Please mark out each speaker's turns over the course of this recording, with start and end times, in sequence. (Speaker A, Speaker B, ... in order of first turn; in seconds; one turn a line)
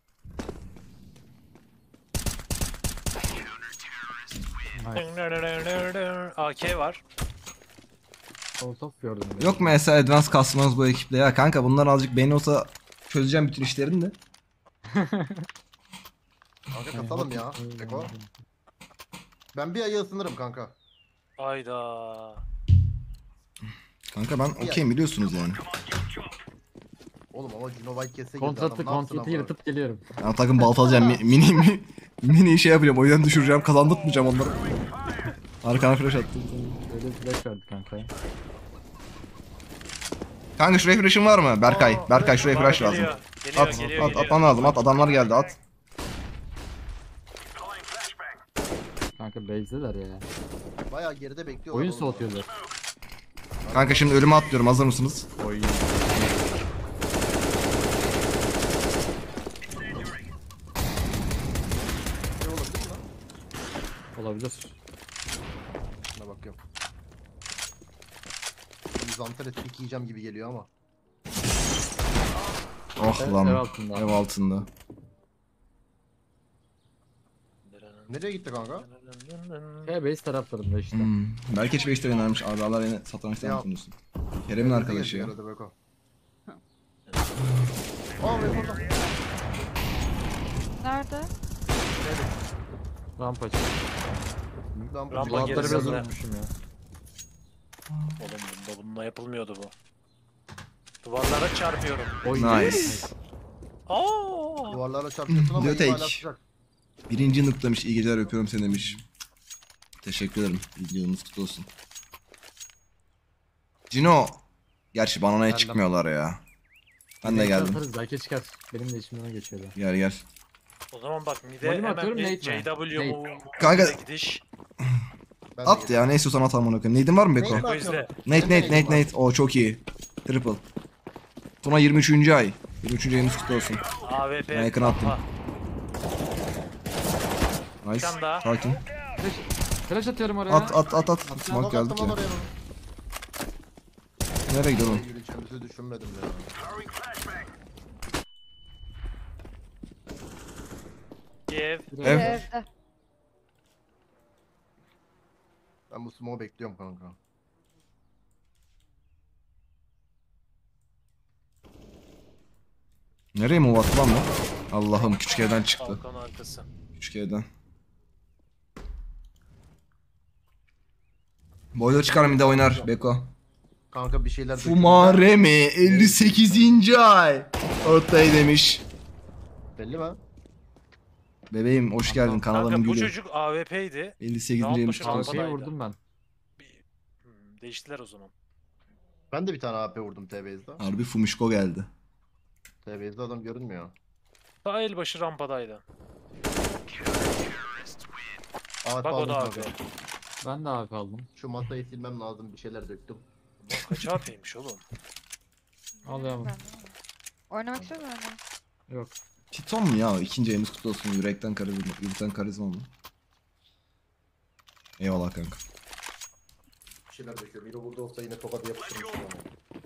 Speaker A: 4.8-5.1
Speaker B: 4.9-7.0
Speaker A: 8.6-9.8
Speaker C: 9.4-14.2
Speaker A: 14.9-15.5
Speaker D: 16.7-18.1
Speaker A: 16.9-18.3
Speaker D: 19.5-20.8
Speaker B: 21.4-22.4
Speaker C: 24.1-25.6
Speaker D: 24.6-24.8
Speaker D: 27.3-29.5
Speaker A: 28.4-30.1
Speaker C: 30.2-34.6
Speaker C: 35.6-36.8
Speaker A: 36.9-38.1
Speaker C: 40.6-45.6
Speaker D: 41.6-43.1
Speaker B: 42.3-45.0
Speaker A: 43.6-44.4
Speaker A: 49.2-50.3
Speaker D: 50.9-52.3
Speaker A: 51.7-52.5
Speaker D: 53.6-54.2
Speaker C: 53.7-55.3
Speaker A: 55.4-56.6
Speaker D: 62.4-63.0
Speaker A: 64.2-64.8
Speaker D: 66.2-66.6
Speaker D: 69.0-70.7
Speaker C: 73.0-74.7
Speaker A: 73.2-74.1
Speaker B: 77.7-78.1
Speaker D: 78.1-78.9
Speaker B: 78.8-79.9
Speaker A: 79.8-81.1
Speaker C: 80.9-84.0
Speaker D: 83.4-83.7
Speaker C: 84.5-85.3
Speaker D: 84.5-85.7
Speaker D: 88.2-89.1
Speaker E: 90.8-91.3
Speaker D: 91.9-92.4
Speaker A: 93.2-93.8
Speaker A: 94.7-96.5
Speaker D: 94.9-96.1
Speaker B: 95.1-96.1
Speaker C: 97.9-98.2
Speaker B: 98.2-99.7
Speaker B: 101.0-102.7
Speaker A: 102.2-103.1
Speaker C: 102.3-103.1
Speaker B: 103.9-104.8
Speaker D: 104.7-106.4
Speaker C: 105.3-106.2
Speaker C: 107.1-109.0
Speaker A: 108.7-109.0
Speaker C: 110.0-111.7
Speaker C: 113.9-114.4
Speaker C: 114.9-116.4
Speaker A: 115.5-115.8
Speaker C: 117.2-117.8
Speaker A: 117.2-119.8
Speaker C: 119.8-120.2
Speaker B: 120.9-124.4
Speaker A: 121.6-123.2
Speaker C: 123.6-124.0
Speaker D: 125.6-126.1
Speaker C: 125.7-127.7
Speaker D: 127.3-129.1
Speaker B: 127.5-128.1
Speaker C: 128.3-130.6
Speaker C: 131.6-133.8
Speaker B: 134.0-135.2
Speaker C: 134.5-135.2
Speaker C: 137.8-138.8
Speaker B: 138.0-138.5
Speaker A: 139.2-141.7
Speaker C: 140.5-142.2
Speaker D: 141.5-142.5
Speaker C: 144.5-145.1
Speaker D: 144.7-146.5
Speaker B: 151.5-151.9
Speaker A: 151.9-152.5
Speaker C: 152.0-152.3
Speaker E: 152.0-152.7
Speaker D: 155.9-157.2
Speaker C: 163.3-166.0
Speaker B: 165.0-166.7
Speaker C: 167.0-167.5
Speaker C: 171.7-173.3
Speaker D: 172.0-172.9
Speaker D: 173.9-175.3
Speaker C: 174.6-178.8
Speaker D: 175.8-176.8
Speaker D: 179.8-180.2
Speaker C: 181.5-183.2
Speaker A: 182.1-182.4
Speaker B: 182.3-185.7
Speaker C: 184.2-185.4
Speaker A: 185.0-186.0
Speaker B: 186.6-188.3
Speaker D: 189.3-190.8
Speaker C: 190.8-191.9
Speaker D: 192.8-193.9
Speaker B: 194.6-195.8
Speaker D: 198.8-199.8
Speaker B: 199.0-199.8
Speaker A: 200.4-201.3
Speaker D: 201.4-203.3
Speaker B: 203.7-204.8
Speaker E: 206.0-206.9
Speaker A: 206.1-206.6
Speaker E: 207.5-208.4
Speaker A: 208.9-209.2
Speaker C: 209.5-212.9
Speaker C: 215.0-215.6
Speaker D: 217.1-219.5